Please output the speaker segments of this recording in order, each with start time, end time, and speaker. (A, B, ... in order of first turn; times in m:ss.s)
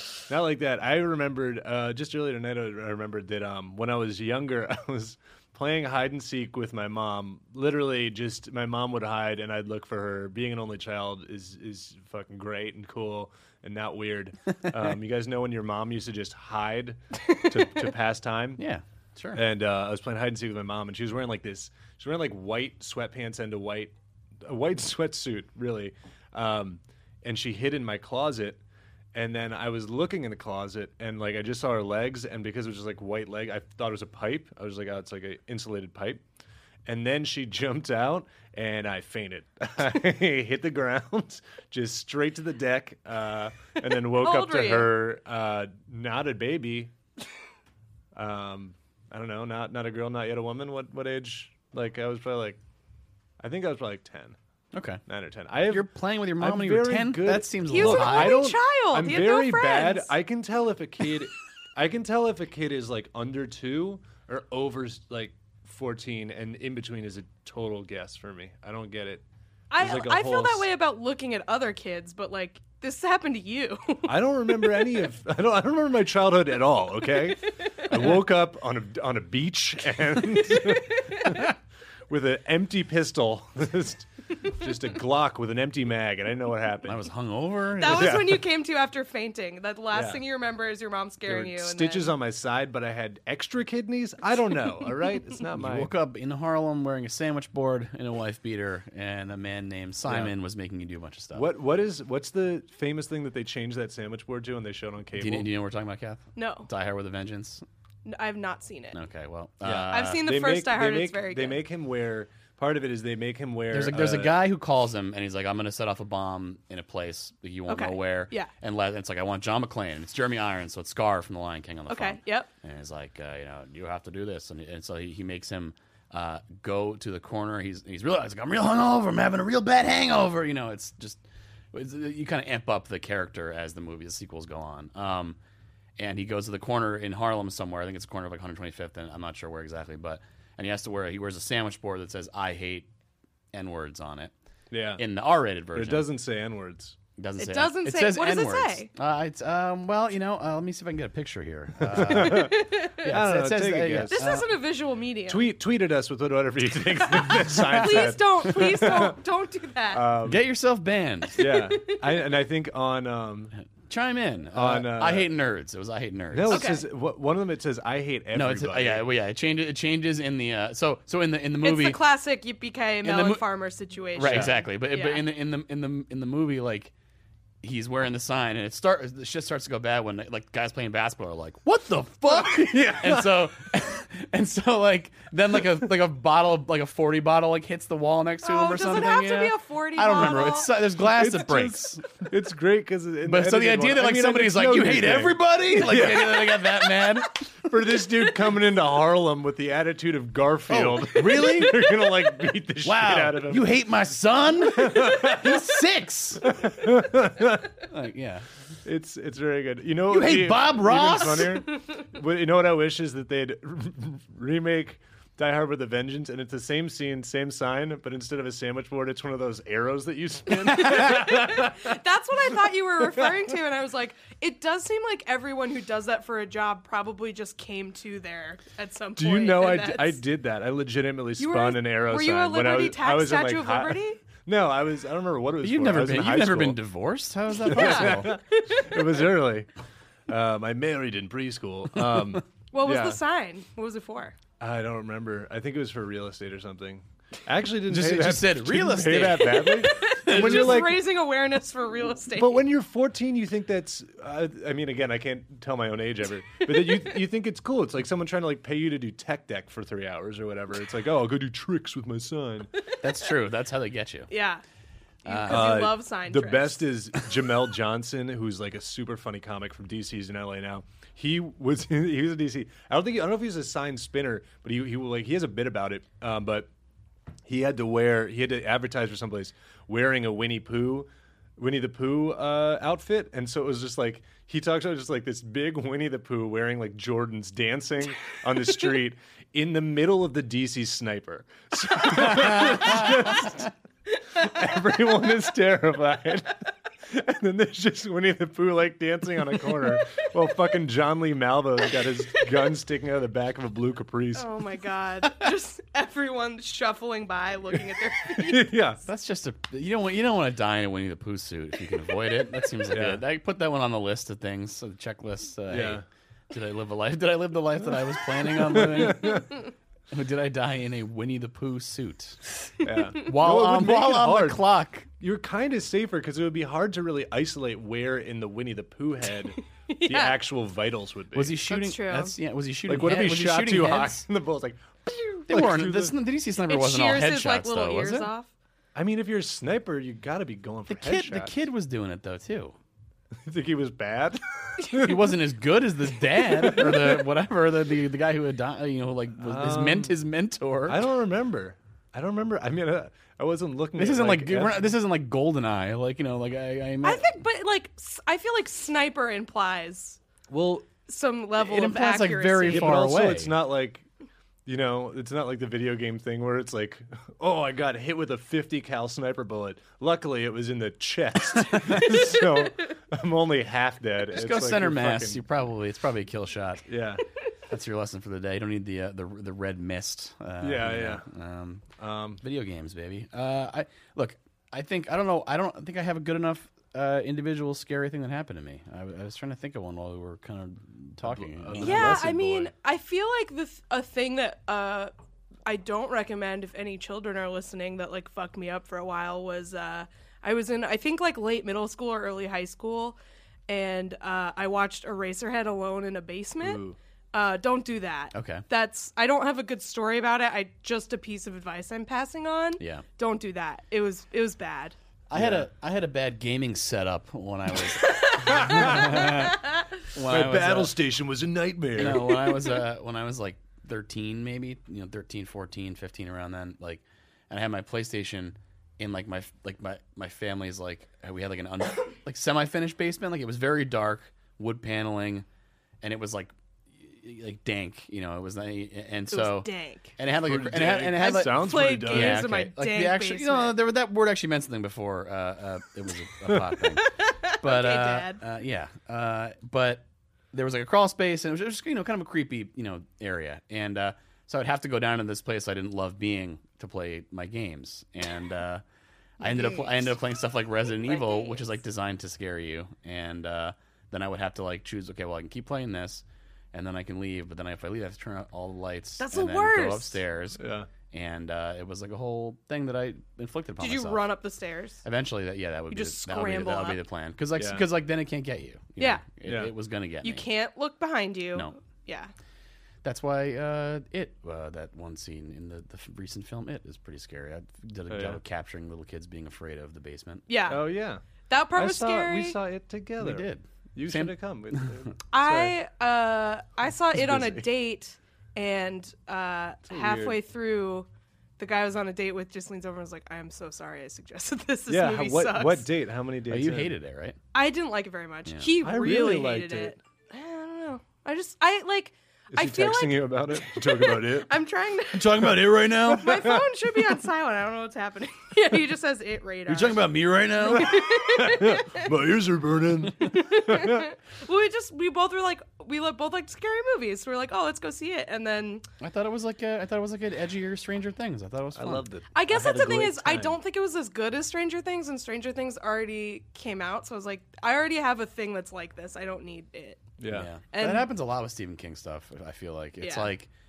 0:00.3-0:18.6 A
0:18.6-0:19.4 B
0:19.3-0:28.6 A
0:29.1-0:36.2 A
0:36.8-0:46.9 A
0:44.1-0:44.9 C
0:48.1-0:52.6 A
0:53.4-0:54.4 A
0:54.7-0:55.0 B
0:55.1-1:09.2 A
0:55.7-0:58.4 B
0:57.6-1:00.1 C
1:09.7-1:14.1 C
1:09.8-1:10.7 A
1:14.0-1:21.5 A
1:20.5-1:21.4 C
1:22.1-1:27.0 A
1:26.8-1:28.4 B
1:27.8-1:32.1 C
1:27.8-1:28.4 A
1:29.9-1:30.2 A
1:31.2-1:35.9 A
1:35.5-1:41.5 B
1:40.1-1:40.3 A
1:41.3-1:45.5 A
1:45.2-1:47.6 B
1:46.4-1:46.7 C
1:48.0-1:49.0 C
1:48.9-1:50.2 B
1:49.6-1:54.4 A
1:49.9-1:51.6 C
1:53.7-2:15.4 B
1:57.7-1:58.5 C
2:01.9-2:02.5 C
2:16.0-2:22.9 B
2:23.5-2:24.3 B
2:24.7-2:25.0 A
2:25.0-2:26.1 B
2:25.7-2:27.0 A
2:27.2-2:34.5 B
2:27.4-2:28.9 C
2:31.8-2:34.3 A
2:32.3-2:33.0 C
2:34.1-2:35.5 C
2:35.3-2:39.1 A
2:37.1-2:40.0 C
2:37.7-2:38.1 B
2:39.9-2:40.4 A
2:40.2-2:41.5 B
2:41.3-2:42.0 C
2:41.4-2:43.5 A
2:43.7-2:46.6 B
2:44.5-2:45.3 A
2:46.3-2:49.0 A
2:46.5-2:46.8 C
2:48.3-2:52.0 B
2:51.6-2:55.2 C
2:53.0-2:53.4 B
2:54.2-2:56.9 B
2:54.2-2:54.5 A
2:57.6-3:12.0 B
3:02.5-3:03.5 A
3:08.4-3:10.7 C
3:10.9-3:16.7 A
3:13.2-3:17.5 B
3:17.6-3:23.7 A
3:20.7-3:21.9 B
3:22.8-3:26.5 B
3:24.7-3:25.7 A
3:26.4-3:27.8 A
3:27.9-3:28.5 B
3:28.8-3:41.9 A
3:30.1-3:31.6 B
3:40.6-3:50.2 C
3:40.7-3:41.2 B
3:49.2-3:56.8 A
3:51.4-3:54.2 C
3:55.6-3:58.3 B
3:57.6-3:59.7 A
3:57.7-3:59.2 C
4:00.3-4:03.2 A
4:02.7-4:04.4 C
4:04.6-4:11.0 A
4:07.9-4:10.9 B
4:09.6-4:12.6 C
4:12.3-4:22.7 A
4:23.0-4:24.3 B
4:24.3-4:24.6 C
4:25.2-4:25.9 B
4:25.2-4:26.8 C
4:25.5-4:36.7 A
4:37.4-4:53.7 A
4:52.7-4:53.1 B
4:54.3-5:04.5 A
5:04.3-5:08.7 C
5:08.3-5:09.0 A
5:09.0-5:19.5 B
5:12.9-5:13.2 A
5:15.7-5:16.0 A
5:18.7-5:19.5 A
5:20.1-5:22.4 B
5:22.8-5:24.6 A
5:23.1-5:25.1 B
5:25.2-5:31.6 A
5:29.9-5:30.4 C
5:31.3-5:34.2 B
5:31.7-5:32.3 C
5:32.9-5:36.2 A
5:35.5-5:38.3 B
5:36.7-5:38.5 C
5:38.9-5:41.5 A
5:40.9-5:42.7 B
5:43.4-5:45.3 A
5:45.0-5:51.0 B
5:46.6-5:47.1 A
5:49.4-5:50.2 A
5:50.9-5:54.8 A
5:54.0-5:57.4 B
5:57.0-6:00.2 C
6:00.5-6:00.9 A
6:01.0-6:03.0 C
6:01.6-6:03.5 B
6:02.7-6:04.0 A
6:04.6-6:15.4 A
6:11.8-6:12.0 B
6:14.3-6:16.8 B
6:16.9-6:17.2 A
6:17.7-6:21.8 B
6:20.6-6:21.2 A
6:22.0-6:22.4 A
6:22.4-6:32.6 B
6:31.2-6:32.6 A
6:31.8-6:35.1 C
6:35.6-6:46.8 C
6:46.6-6:47.0 A
6:47.3-6:54.9 C
6:48.3-6:48.6 B
6:52.8-6:53.0 B
6:55.3-7:00.9 B
6:55.3-6:55.7 A
6:58.0-6:59.2 C
6:58.4-6:59.3 A
7:00.2-7:02.5 A
7:01.9-7:15.4 B
7:16.0-7:38.8 B
7:19.3-7:20.1 C
7:20.4-7:22.5 A
7:21.2-7:23.7 C
7:27.0-7:28.4 C
7:39.4-7:50.6 B
7:39.4-7:40.0 C
7:41.2-7:41.6 C
7:49.2-7:50.2 C
7:50.6-7:50.9 A
7:51.1-7:54.3 B
7:53.8-7:55.0 C
7:55.0-8:00.5 B
7:55.9-7:57.0 C
7:57.6-7:57.8 A
7:59.0-7:59.2 C
7:59.4-7:59.7 A
8:00.2-8:02.3 C
8:03.0-8:10.4 B
8:08.1-8:08.4 A
8:10.5-8:10.8 C
8:10.7-8:15.7 A
8:11.4-8:12.6 C
8:13.2-8:15.1 B
8:15.3-8:21.1 C
8:17.2-8:17.6 A
8:19.9-8:20.4 A
8:21.6-8:25.9 C
8:24.9-8:26.9 A
8:26.5-8:27.4 B
8:27.5-8:40.0 C
8:28.8-8:30.0 A
8:32.5-8:34.5 A
8:35.1-8:36.5 B
8:36.3-8:36.6 A
8:39.7-8:40.9 B
8:40.6-8:42.1 C
8:41.0-8:44.0 A
8:43.2-8:48.8 C
8:49.0-8:52.1 B
8:51.8-8:53.6 A
8:52.3-9:00.0 C
9:00.2-9:00.5 A
9:00.3-9:03.5 B
9:00.7-9:01.1 C
9:03.0-9:03.3 C